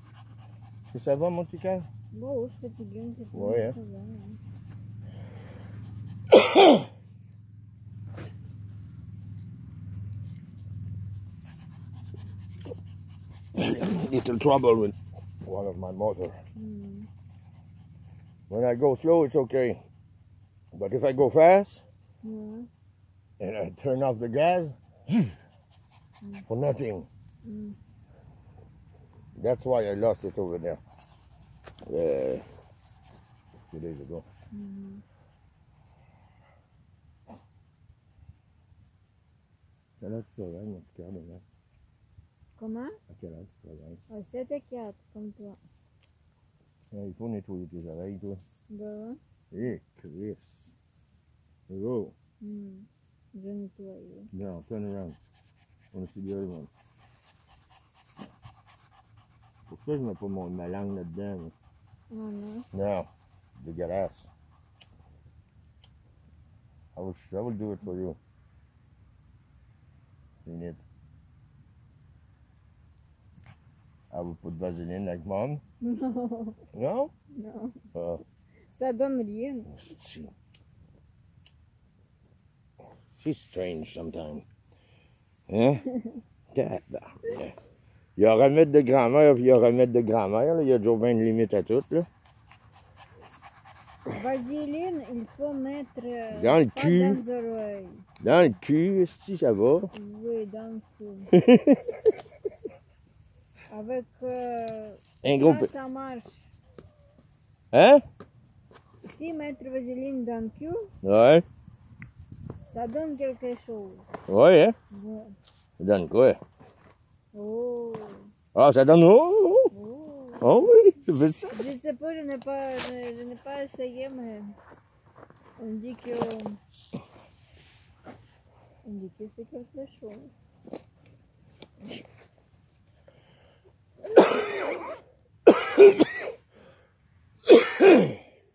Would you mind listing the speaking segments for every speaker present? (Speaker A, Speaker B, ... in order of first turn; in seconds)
Speaker A: 0.9-1.9, 3.3-3.7, 6.3-6.7, 13.5-16.4, 18.5-19.8, 20.7-21.8, 23.4-25.4, 26.5-27.1, 29.4-30.8, 31.8-32.5, 33.6-34.2, 40.0-41.4, 43.1-44.0, 46.9-48.4, 49.5-50.7, 51.7-52.1, 54.3-55.2, 55.9-56.7, 59.7-61.5, 62.7-64.3, 66.9-68.2, 70.4-70.8, 74.1-75.6, 76.7-77.1, 77.9-78.2, 79.7-80.3, 83.1-84.5, 85.5-85.8, 86.5-87.5, 88.2-92.1, 96.3-97.2, 98.2-99.9, 101.3-102.0, 105.2-105.7, 107.7-108.0, 111.0-111.4, 114.3-114.7, 115.8-116.4, 118.5-119.7, 120.4-121.6
Speaker B: 2.1-4.4, 16.6-17.1, 22.2-22.7, 27.4-27.8, 34.5-35.0, 42.6-43.0, 44.1-45.6, 48.7-49.2, 52.4-54.3, 62.1-62.7, 75.8-76.6, 77.3-77.8, 78.7-79.7, 94.1-98.0, 99.9-101.3, 103.7-106.5, 109.0-110.9, 112.7-114.1, 114.9-115.3, 117.3-118.3, 119.7-120.5, 121.5-124.5, 125.6-126.6, 128.8-130.3